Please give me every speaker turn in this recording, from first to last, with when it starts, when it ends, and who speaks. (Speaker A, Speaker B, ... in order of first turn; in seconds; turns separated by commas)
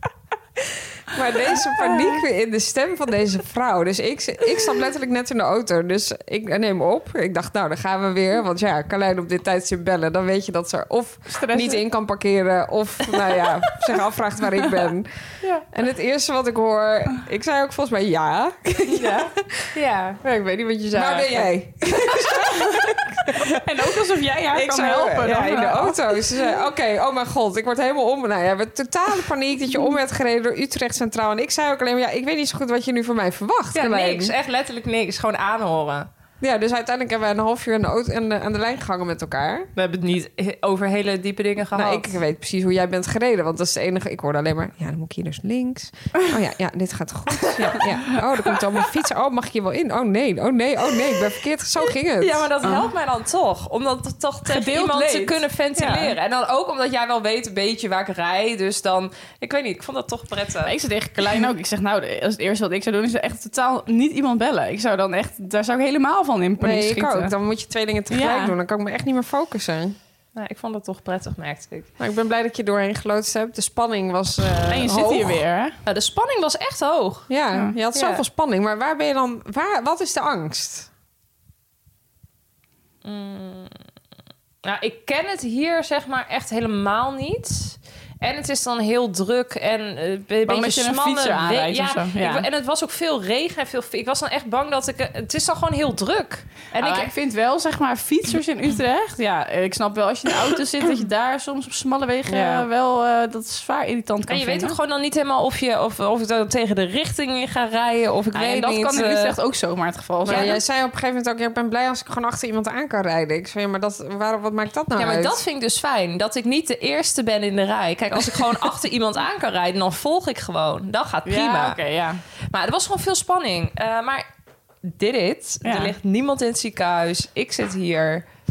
Speaker A: 1.1-19.7, Speaker B: 11.3-11.8, Speaker C: 18.9-20.2, Speaker A: 20.2-23.6, Speaker C: 20.9-21.5, Speaker B: 22.8-26.0, Speaker A: 24.5-34.3, Speaker C: 33.7-36.1, Speaker A: 36.4-39.7, Speaker C: 39.8-42.2, Speaker A: 41.8-52.5, Speaker C: 51.8-60.7, Speaker B: 52.6-52.9, Speaker B: 54.5-55.4, Speaker A: 55.8-56.1, Speaker B: 60.7-67.3, Speaker A: 66.6-70.0, Speaker B: 68.1-68.5, Speaker C: 70.3-71.9, Speaker A: 72.0-75.4, Speaker B: 74.7-75.8, Speaker C: 75.9-77.3, Speaker A: 77.3-80.9, Speaker C: 77.9-78.2, Speaker C: 83.0-83.8, Speaker C: 84.6-97.1, Speaker B: 90.5-92.5, Speaker B: 96.8-104.8, Speaker A: 102.3-102.7, Speaker C: 104.3-109.3, Speaker B: 108.3-110.6, Speaker A: 110.3-115.4, Speaker C: 110.3-110.6, Speaker C: 115.0-121.8, Speaker B: 121.2-122.2, Speaker C: 122.5-124.3, Speaker C: 124.8-128.3, Speaker B: 125.6-125.9